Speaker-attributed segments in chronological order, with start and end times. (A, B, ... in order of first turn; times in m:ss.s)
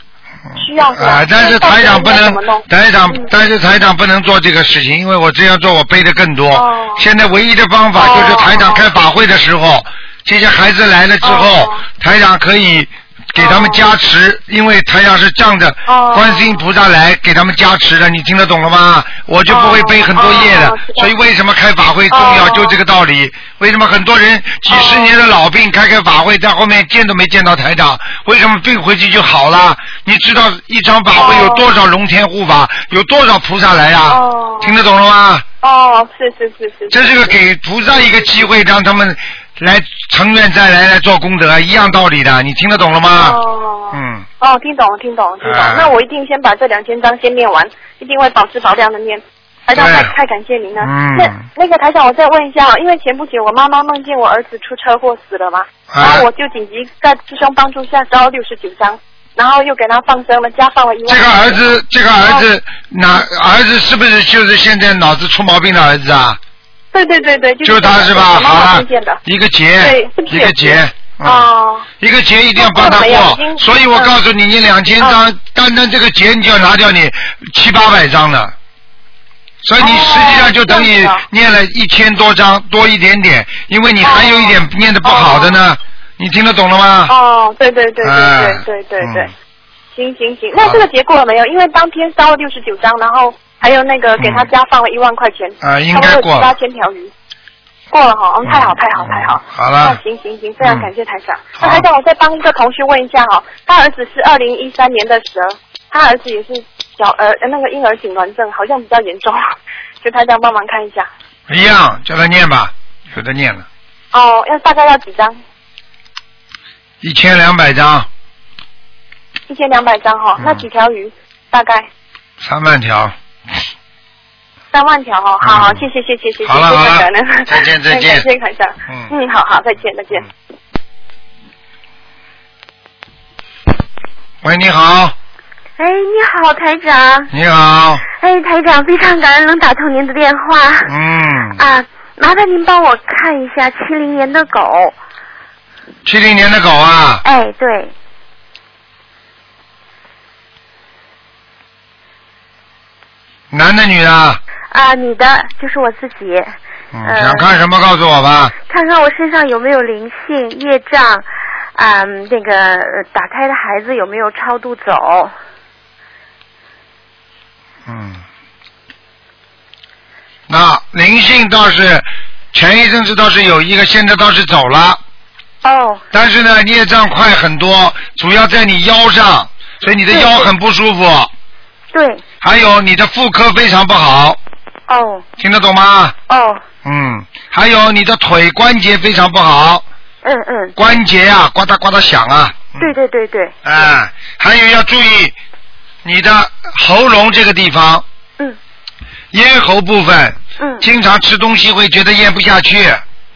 0:00.5-0:35.4 A
0:00.6-0:03.3 B
0:06.5-0:07.0 B
0:08.0-0:08.8 B
0:11.2-0:11.8 B
0:13.4-0:13.8 B
0:15.9-0:16.6 B
0:19.5-0:21.1 B
0:22.1-0:22.8 B
0:24.7-0:25.1 B
0:31.1-0:31.7 B
0:34.1-0:34.8 B
0:35.6-0:37.3 B
0:36.9-0:43.4 A
0:43.2-1:01.7 B
0:43.9-0:44.3 A
0:45.4-0:45.9 A
0:49.7-0:50.1 A
0:50.8-0:51.4 A
0:55.9-0:56.3 A
1:01.1-1:06.4 A
1:06.9-1:09.2 B
1:07.6-1:11.5 A
1:09.8-1:11.9 B
1:12.0-1:18.5 A
1:12.6-1:14.1 B
1:19.6-1:27.1 A
1:19.8-1:21.2 B
1:24.0-1:25.6 B
1:27.1-1:29.3 B
1:28.0-1:29.3 A
1:29.9-1:37.1 B
1:30.6-1:30.8 A
1:34.2-1:34.5 A
1:35.6-1:36.5 A
1:37.9-1:51.1 B
1:38.4-1:40.0 A
1:40.6-1:40.9 A
1:41.6-1:41.9 A
1:51.5-1:53.6 A
1:54.1-1:55.4 B
1:57.0-1:58.1 A
1:59.5-2:01.9 B
2:00.4-2:00.7 A
2:02.4-2:03.1 A
2:04.7-2:10.3 B
2:05.4-2:05.9 A
2:06.4-2:08.3 A
2:14.4-2:15.1 A
2:15.8-2:17.3 C
2:17.3-2:18.0 A
2:18.1-2:20.9 C
2:20.8-2:21.6 A
2:21.5-2:24.9 C
2:26.0-2:27.2 A
2:27.2-2:27.9 C
2:33.5-2:34.4 A
2:34.7-2:37.5 C
2:36.9-2:38.5 A
2:38.7-2:45.3 C
2:47.8-2:48.2 A
2:50.5-2:55.0 A
2:55.6-2:56.0 C
2:56.1-3:01.3 A
3:00.1-3:00.5 C
3:01.9-3:02.2 C
3:02.4-3:04.4 A
3:04.9-3:05.2 C
3:05.4-3:06.1 A
3:06.3-3:06.6 C
3:06.8-3:09.8 A
3:10.2-3:10.8 C
3:10.8-3:12.9 A
3:12.8-3:13.6 C
3:13.6-3:15.4 A
3:16.0-3:18.0 A
3:19.3-3:23.0 A
3:20.6-3:20.8 C